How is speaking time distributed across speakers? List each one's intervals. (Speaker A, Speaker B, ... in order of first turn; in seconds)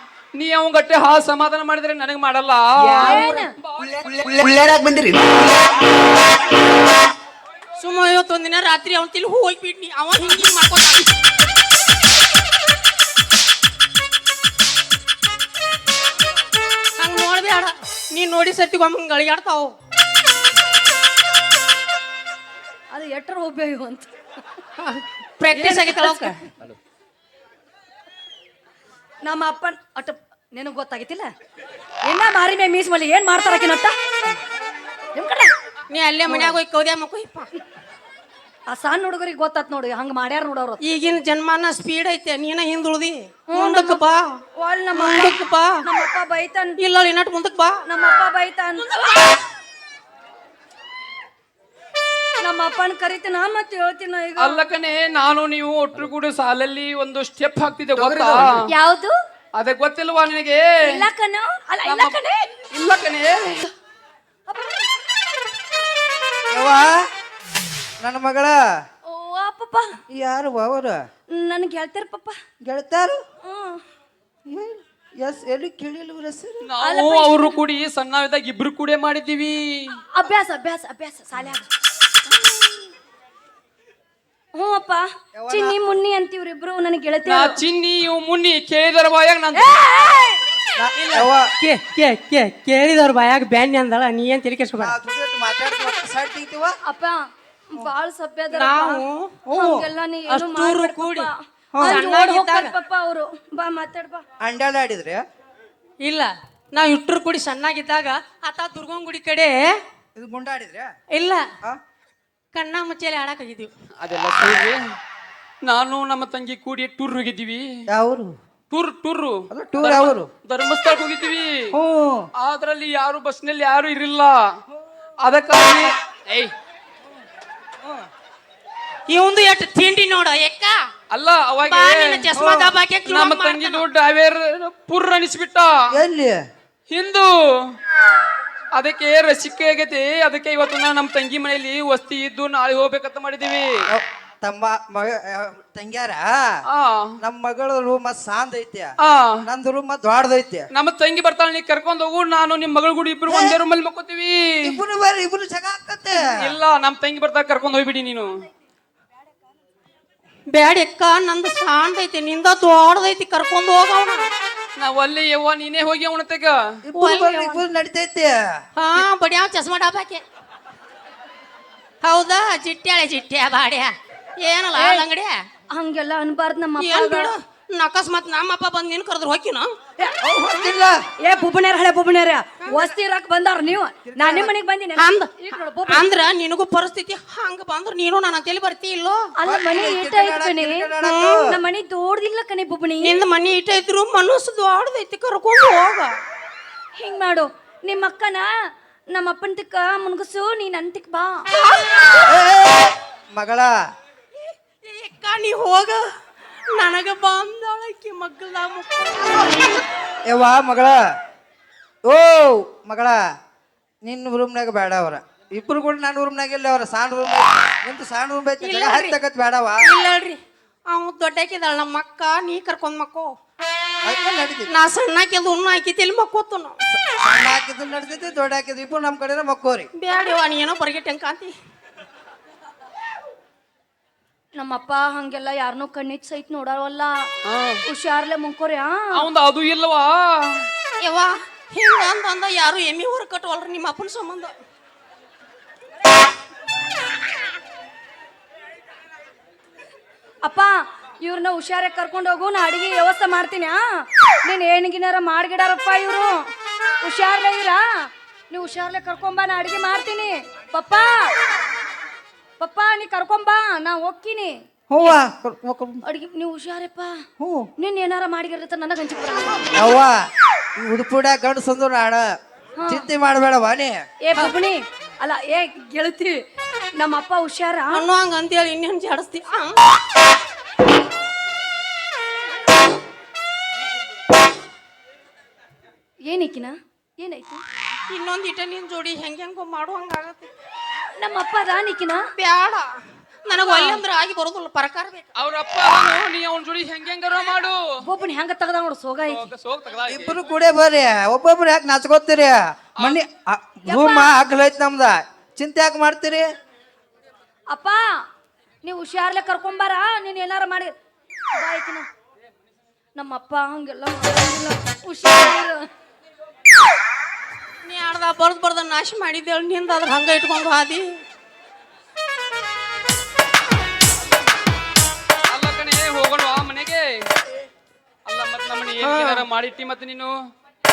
Speaker A: 0.3-4.3, 54.4-58.6, 59.6-60.7, 61.9-62.2, 62.7-63.7, 76.6-80.0, 87.3-89.8, 114.0-114.8, 115.6-117.7, 118.7-121.7, 122.4-124.4, 125.2-126.5, 131.1-132.3, 133.0-135.7, 136.9-137.7, 138.7-143.7, 146.7-147.1, 149.0-149.4, 150.7-154.8, 156.2-158.4, 164.8-166.6, 237.4-237.8, 239.1-240.7, 295.4-297.8, 299.3-300.4, 325.5-327.1, 328.2-330.3
Speaker B: 2.9-3.2, 3.8-5.8, 58.0-58.5
Speaker C: 3.0-3.5, 22.9-24.1, 25.5-26.3, 29.2-31.3, 32.0-33.9, 35.1-35.5, 38.7-40.8, 43.5-44.0, 44.6-46.8, 47.9-49.4, 52.4-54.6, 58.7-59.1, 60.9-62.5, 64.5-64.8, 69.1-69.8, 71.3-72.3, 73.4-73.8, 76.8-77.6, 80.1-81.6, 82.3-82.8, 84.5-87.5, 89.5-90.4, 96.9-104.2, 174.8-175.1, 175.7-177.3, 181.2-186.1, 189.4-190.9, 191.4-193.2, 197.0-198.5, 199.1-201.5, 234.6-237.3, 237.9-239.1, 250.4-256.4, 257.0-261.2, 262.6-264.5, 266.0-267.2, 267.8-269.7, 272.8-273.1, 274.2-276.3, 277.0-278.1, 286.3-287.6, 291.1-292.2, 293.6-294.0, 298.0-299.5, 303.9-304.3, 307.7-308.0, 308.8-310.9, 311.6-312.1, 313.1-315.8
Speaker D: 7.8-11.1, 17.0-19.8, 24.8-26.3, 35.9-37.5, 40.8-44.4, 44.9-45.8, 46.8-47.8, 91.0-94.9, 98.5-99.4, 100.3-101.3, 101.8-102.7, 106.0-109.8, 111.1-111.4, 112.5-113.7, 129.1-130.9, 131.7-133.8, 160.5-164.2, 167.0-167.6, 168.8-170.2, 172.0-175.4, 176.8-179.8, 185.0-185.4, 185.9-189.2, 191.0-191.5, 193.0-196.1, 201.6-202.3, 204.4-206.0, 206.7-209.8, 218.6-219.2, 219.8-223.3, 224.7-226.8, 230.0-231.5, 241.0-244.5, 277.9-279.8, 288.1-290.5, 292.3-295.2, 317.8-321.2, 329.0-329.4
Speaker E: 66.5-66.9, 68.0-68.6, 70.1-71.0, 72.6-73.2, 74.5-76.7, 85.3-85.8, 90.8-91.5, 94.8-96.7, 99.5-99.9, 101.7-102.0, 104.4-105.2, 110.2-110.9, 117.9-118.3, 119.5-120.3, 121.7-122.3, 132.3-132.7, 135.9-136.4, 143.9-146.6, 147.2-150.7, 153.3-153.6, 154.6-156.5, 166.9-168.5, 180.2-181.0, 184.1-184.5, 189.4-191.4, 202.2-203.7, 210.3-211.0, 212.0-213.2, 214.0-219.9, 224.1-224.7, 227.0-229.9, 264.9-266.0, 267.4-267.7, 269.8-272.4, 272.9-274.0, 300.1-306.4